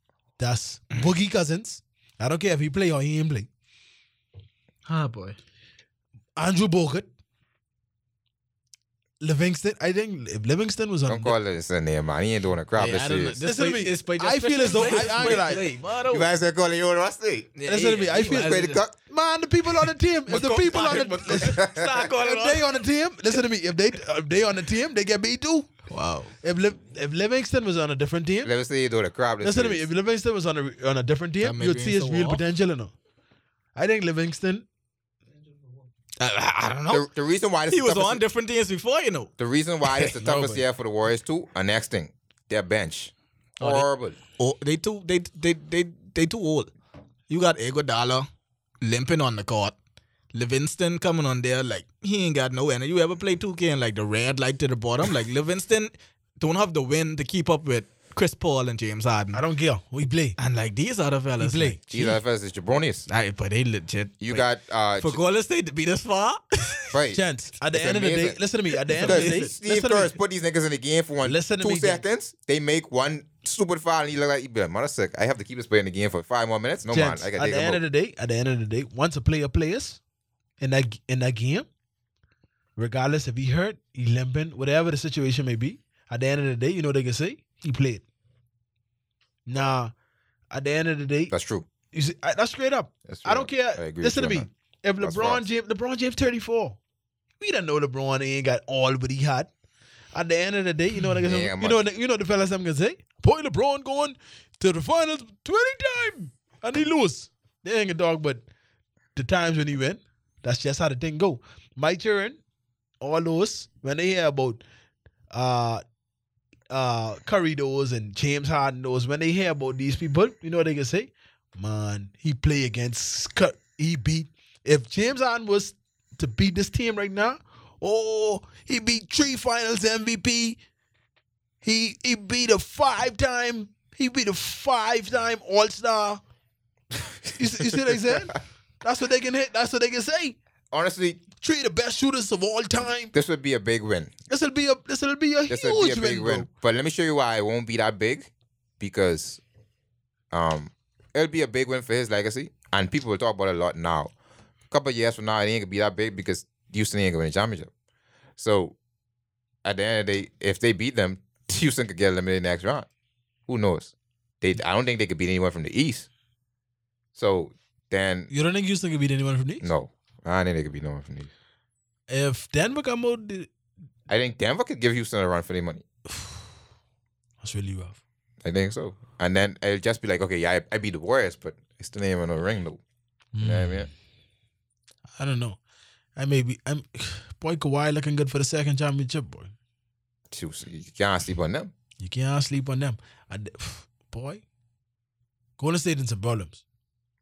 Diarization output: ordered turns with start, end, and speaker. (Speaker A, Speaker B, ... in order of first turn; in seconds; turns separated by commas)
Speaker A: 0.4-3.5, Speaker B: 4.9-5.4, Speaker A: 6.4-7.1, Speaker A: 9.2-11.4, Speaker C: 11.1-13.4, Speaker B: 12.8-16.3, Speaker A: 13.4-15.6, Speaker C: 16.1-17.5, Speaker B: 17.6-18.8, Speaker A: 17.7-21.6, Speaker C: 18.2-18.9, Speaker B: 20.3-22.8, Speaker C: 21.4-22.0, Speaker A: 22.2-25.7, Speaker B: 25.9-26.3, Speaker A: 26.4-28.5, Speaker C: 28.4-29.8, Speaker A: 29.4-32.9, Speaker B: 31.4-32.4, Speaker A: 33.8-34.6, Speaker B: 36.2-37.0, Speaker C: 36.9-38.2, Speaker B: 37.7-39.3, Speaker C: 39.4-44.2, Speaker B: 39.9-40.1, Speaker A: 40.2-40.6, Speaker B: 43.6-46.7, Speaker B: 47.3-48.3, Speaker B: 48.8-49.7, Speaker B: 50.3-59.4, Speaker A: 59.3-60.4, Speaker B: 60.4-61.9, Speaker A: 61.4-62.1, Speaker C: 61.9-63.1, Speaker B: 63.1-64.5, Speaker C: 64.2-65.2, Speaker B: 65.0-67.0, Speaker C: 66.9-68.4, Speaker A: 67.1-70.1, Speaker B: 68.9-69.5, Speaker C: 69.0-77.8, Speaker A: 71.2-72.0, Speaker A: 76.9-80.0, Speaker A: 80.6-81.7, Speaker A: 82.8-88.0, Speaker A: 89.5-89.9, Speaker A: 90.5-91.3, Speaker C: 91.3-91.7, Speaker A: 91.9-96.8, Speaker C: 93.0-94.5, Speaker C: 95.0-95.4, Speaker A: 97.4-99.5, Speaker A: 100.1-108.4, Speaker C: 101.2-101.8, Speaker A: 109.1-112.4, Speaker A: 113.0-114.6, Speaker A: 115.3-115.8, Speaker A: 116.7-130.6, Speaker A: 131.6-136.2, Speaker A: 137.3-140.4, Speaker C: 140.7-141.2, Speaker A: 141.4-143.1, Speaker C: 143.1-144.1, Speaker A: 144.3-146.5, Speaker C: 145.5-149.4, Speaker C: 150.3-154.1, Speaker C: 154.7-157.7, Speaker C: 158.4-158.8, Speaker C: 159.6-162.9, Speaker C: 163.5-166.1, Speaker C: 167.2-168.3, Speaker A: 168.3-169.7, Speaker C: 169.6-171.3, Speaker A: 172.1-173.5, Speaker C: 174.1-175.8, Speaker A: 176.1-176.4, Speaker A: 177.4-178.0, Speaker C: 178.4-182.8, Speaker A: 183.3-183.9, Speaker C: 183.4-183.9, Speaker A: 185.2-185.6, Speaker A: 186.2-189.5, Speaker C: 190.3-191.7, Speaker A: 192.0-194.4, Speaker A: 195.6-196.6